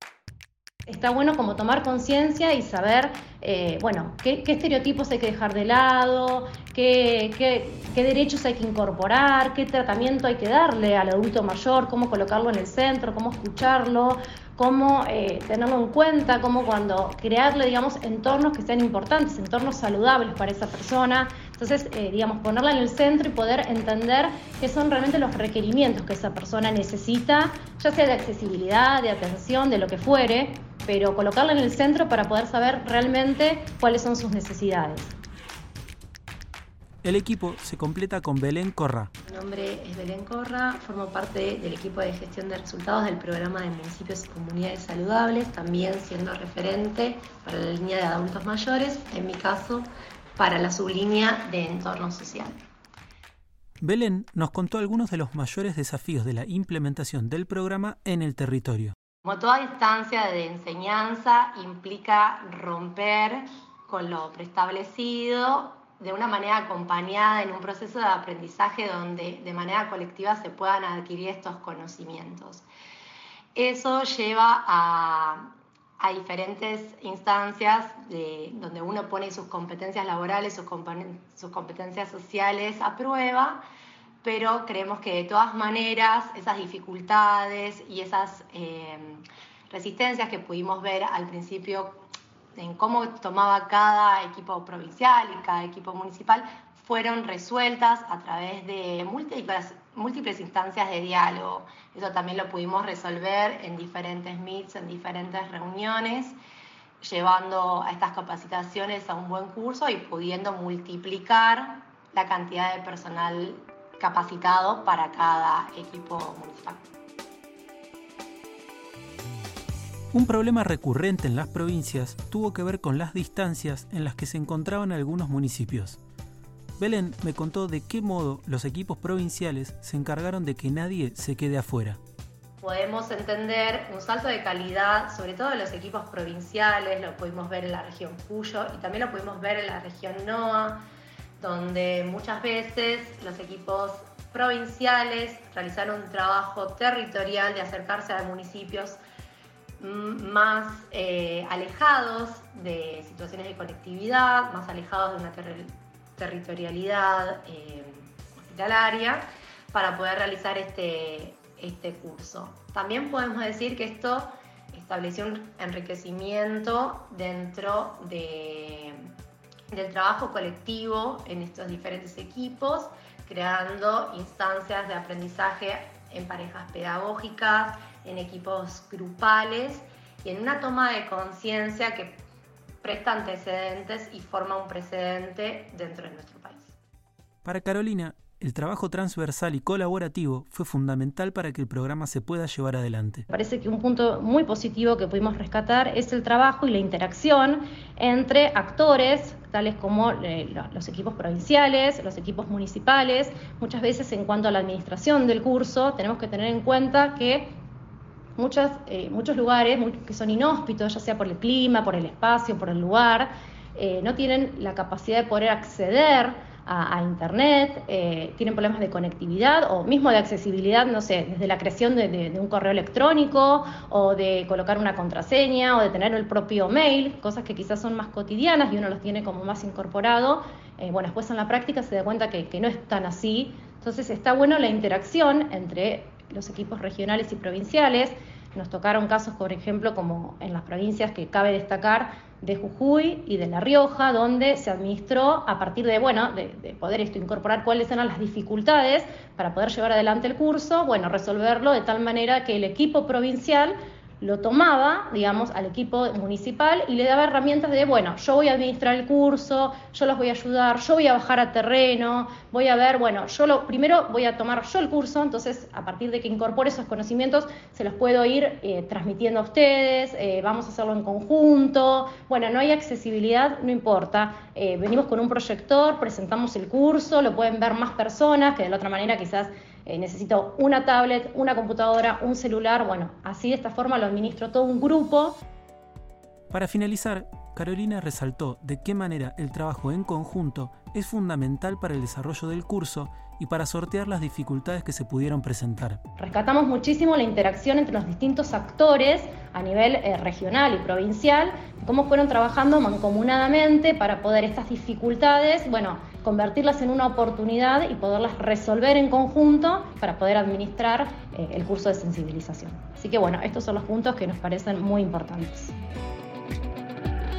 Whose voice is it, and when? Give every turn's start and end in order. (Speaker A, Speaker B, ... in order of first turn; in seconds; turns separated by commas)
Speaker A: 0.9-35.1, Speaker B: 37.0-39.1, Speaker A: 39.3-41.0, Speaker C: 39.5-49.9, Speaker A: 45.2-45.5, Speaker A: 47.2-47.5, Speaker C: 50.4-52.5, Speaker A: 51.8-52.2, Speaker B: 53.8-58.9, Speaker C: 59.3-72.6, Speaker A: 59.6-60.0, Speaker C: 73.6-75.4, Speaker C: 76.0-83.6, Speaker A: 81.2-81.5, Speaker C: 84.2-91.9, Speaker C: 92.6-106.3, Speaker C: 107.0-116.7, Speaker B: 120.1-126.0, Speaker B: 126.8-132.0, Speaker C: 132.6-140.8, Speaker A: 133.6-134.1, Speaker C: 141.4-148.9, Speaker C: 149.8-155.7, Speaker C: 156.2-158.0, Speaker C: 158.6-159.2, Speaker C: 159.7-164.2, Speaker A: 161.4-161.6, Speaker A: 162.6-162.9, Speaker C: 164.8-168.9, Speaker C: 169.8-171.5, Speaker A: 171.5-172.6, Speaker C: 172.1-182.1, Speaker C: 182.8-185.5, Speaker A: 183.6-184.3, Speaker A: 185.2-186.7, Speaker B: 187.4-193.2, Speaker A: 193.3-207.6, Speaker A: 208.4-285.4, Speaker B: 286.5-296.0, Speaker A: 296.2-315.8